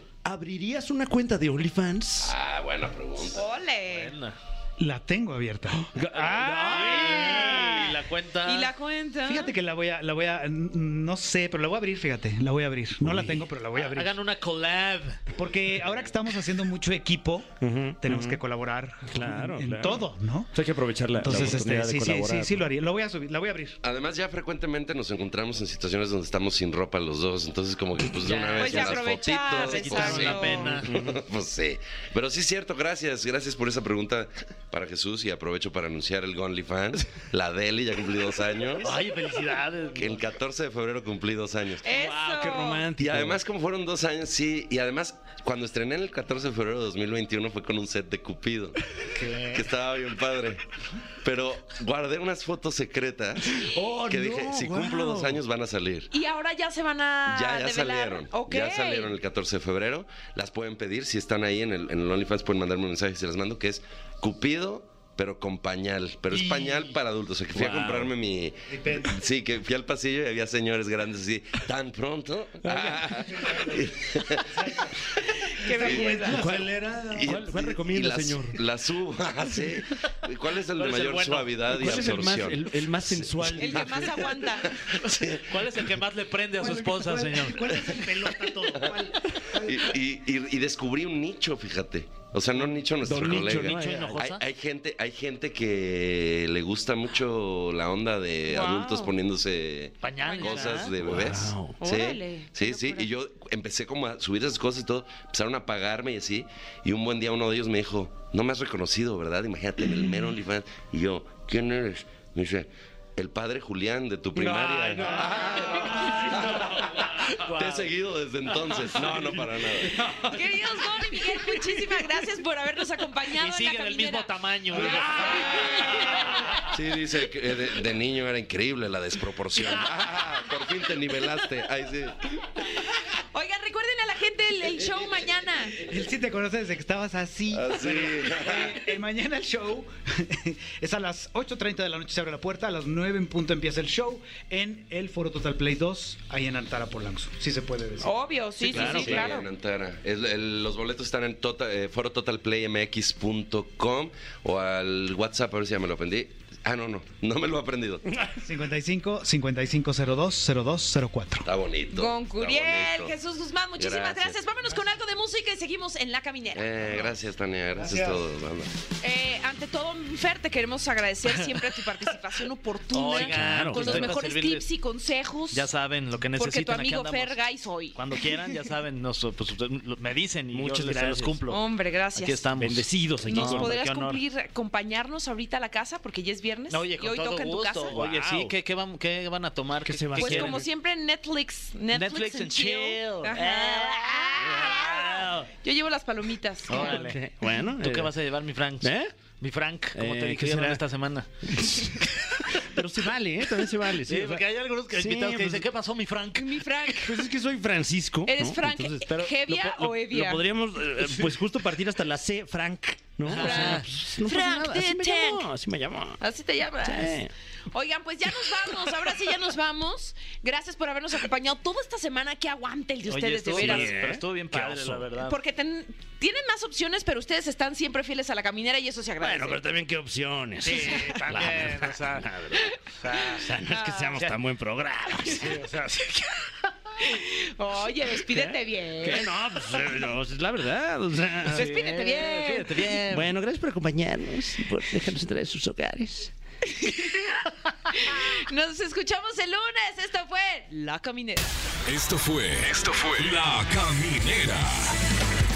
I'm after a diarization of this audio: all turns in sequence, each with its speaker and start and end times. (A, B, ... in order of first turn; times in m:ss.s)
0:00.2-0:02.3 A
0:02.2-0:03.4 B
0:03.3-0:04.1 C
0:03.8-0:04.4 D
0:04.8-0:07.3 E
0:05.8-0:07.8 A
0:06.2-0:08.7 D
0:06.7-0:07.8 C
0:08.4-0:09.5 C
0:09.2-0:14.2 E
0:13.0-0:13.4 A
0:13.7-0:15.3 D
0:15.3-0:20.5 E
0:17.6-0:18.4 A
0:19.1-0:22.6 A
0:21.2-0:23.8 E
0:23.8-0:39.0 B
0:28.2-0:31.0 D
0:28.6-0:30.7 C
0:30.8-0:31.2 A
0:38.8-0:40.2 D
0:39.9-0:41.8 B
0:41.8-0:42.9 C
0:41.9-0:43.4 A
0:43.0-0:48.9 B
0:49.2-0:49.6 D
0:49.5-0:50.6 B
0:51.2-0:56.1 B
0:53.5-0:55.4 A
0:56.1-0:59.1 C
0:57.3-1:14.6 B
1:06.4-1:06.8 E
1:07.5-1:08.1 A
1:08.7-1:09.2 E
1:12.6-1:13.1 A
1:13.3-1:15.0 E
1:15.5-1:16.4 C
1:15.6-1:17.0 E
1:15.8-1:16.1 B
1:16.3-1:18.6 A
1:17.1-1:23.5 B
1:20.8-1:22.2 D
1:21.7-1:24.5 A
1:23.6-1:24.8 C
1:24.6-1:25.8 B
1:25.1-1:27.6 D
1:26.6-1:29.9 E
1:29.5-2:00.0 B
1:33.0-1:34.2 A
1:33.4-1:34.4 D
1:38.5-1:39.1 C
1:40.0-1:40.9 D
1:40.2-1:40.7 C
1:41.0-1:41.8 A
1:41.8-1:43.1 C
1:54.3-1:55.6 A
1:55.0-1:57.9 D
1:56.2-1:56.7 A
2:00.0-2:00.2 A
2:00.1-2:06.5 C
2:03.3-2:06.0 D
2:06.7-2:12.3 B
2:12.6-2:15.8 C
2:15.8-2:28.2 E
2:17.5-2:18.8 B
2:28.0-2:29.4 C
2:28.7-2:29.4 A
2:28.7-2:38.1 B
2:38.4-2:41.5 E
2:41.4-2:43.1 B
2:41.9-2:46.8 C
2:43.8-2:44.4 B
2:46.5-2:48.7 B
2:47.7-2:48.2 E
2:49.0-2:55.7 C
2:51.3-2:51.6 D
2:52.9-2:54.6 D
2:53.1-2:54.1 A
2:55.5-2:57.4 D
2:56.4-2:58.0 C
2:57.9-3:04.2 D
3:00.5-3:01.4 A
3:01.5-3:02.4 C
3:02.6-3:03.7 A
3:03.2-3:07.9 C
3:06.7-3:10.6 D
3:07.9-3:08.5 A
3:09.8-3:10.6 A
3:10.1-3:17.0 C
3:11.9-3:15.5 D
3:16.7-3:21.3 D
3:16.7-3:18.2 A
3:18.8-3:19.2 A
3:19.9-3:20.8 A
3:21.4-3:25.7 A
3:23.6-3:26.6 D
3:26.4-3:27.3 C
3:27.0-3:36.2 A
3:28.2-3:30.4 C
3:29.1-3:29.3 D
3:31.0-3:31.3 D
3:33.2-3:34.0 D
3:33.3-3:35.5 C
3:36.2-3:44.0 C
3:36.8-3:37.3 A
3:43.0-3:45.4 D
3:43.5-3:45.0 A
3:45.2-3:49.6 C
3:49.2-3:56.1 A
3:50.6-3:52.3 D
3:50.6-3:51.2 C
3:52.6-3:54.1 C
3:52.8-3:53.5 D
3:54.1-3:54.4 D
3:55.3-3:56.3 D
3:57.0-3:59.3 C
3:58.4-4:01.7 A
4:01.4-4:03.3 D
4:01.5-4:02.7 C
4:03.1-4:06.3 A
4:06.6-4:11.5 C
4:11.8-4:15.0 F